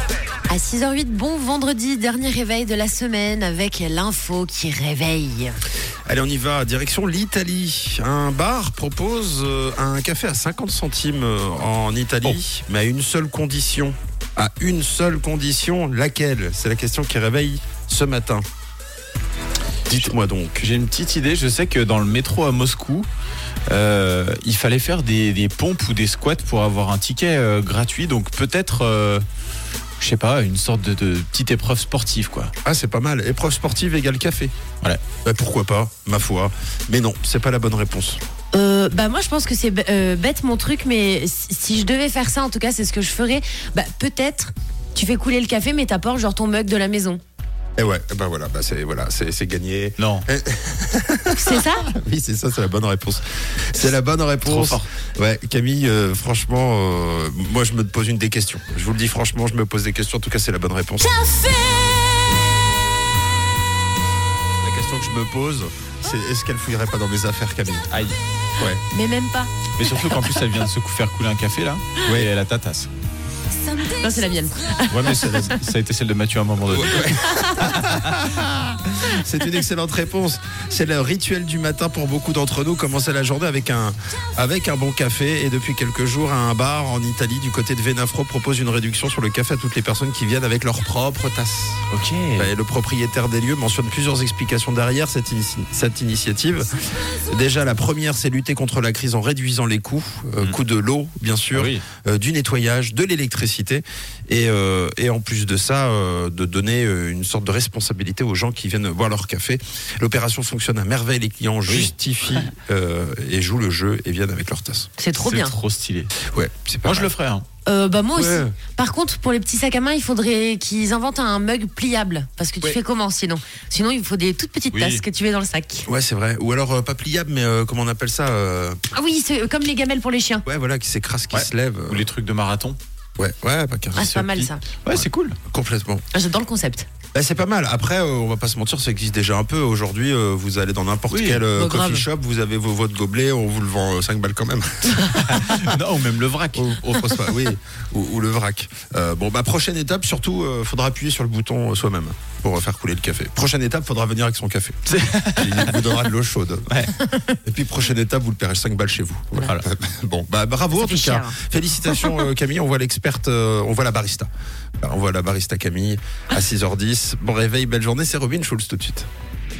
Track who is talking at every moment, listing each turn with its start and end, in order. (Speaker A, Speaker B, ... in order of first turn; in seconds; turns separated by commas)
Speaker A: 0.5-5.5, Speaker B: 6.1-18.4, Speaker B: 19.9-20.7, Speaker C: 19.9-23.1, Speaker C: 23.7-29.2, Speaker C: 30.0-32.5, Speaker B: 32.6-34.5, Speaker B: 35.2-38.2, Speaker A: 38.5-47.2, Speaker B: 47.8-61.2, Speaker C: 50.0-50.2, Speaker A: 51.3-51.9, Speaker C: 54.4-54.9, Speaker A: 61.3-61.6, Speaker B: 64.6-68.8, Speaker A: 68.9-69.5, Speaker C: 69.8-72.9, Speaker A: 73.7-75.5, Speaker C: 74.9-78.2, Speaker B: 76.7-91.8, Speaker C: 91.9-92.5, Speaker B: 92.4-114.9, Speaker C: 101.5-101.8, Speaker C: 111.7-112.5, Speaker A: 115.0-115.5, Speaker C: 115.2-116.1, Speaker B: 116.2-117.1, Speaker C: 116.8-117.4, Speaker A: 117.6-125.9, Speaker B: 118.1-118.5, Speaker C: 124.7-125.0, Speaker B: 125.9-128.8, Speaker A: 128.9-130.4, Speaker B: 130.4-132.1, Speaker C: 131.3-132.8, Speaker B: 133.2-134.1, Speaker A: 133.9-134.6, Speaker C: 134.0-135.4, Speaker B: 134.9-136.0, Speaker A: 136.1-136.9, Speaker B: 137.1-145.6, Speaker C: 141.1-141.4, Speaker A: 141.5-142.1, Speaker C: 145.1-147.4, Speaker B: 146.5-154.8, Speaker C: 154.9-156.0, Speaker B: 155.3-164.3, Speaker C: 156.7-156.9, Speaker A: 160.7-161.3, Speaker A: 161.9-162.2, Speaker B: 164.8-169.1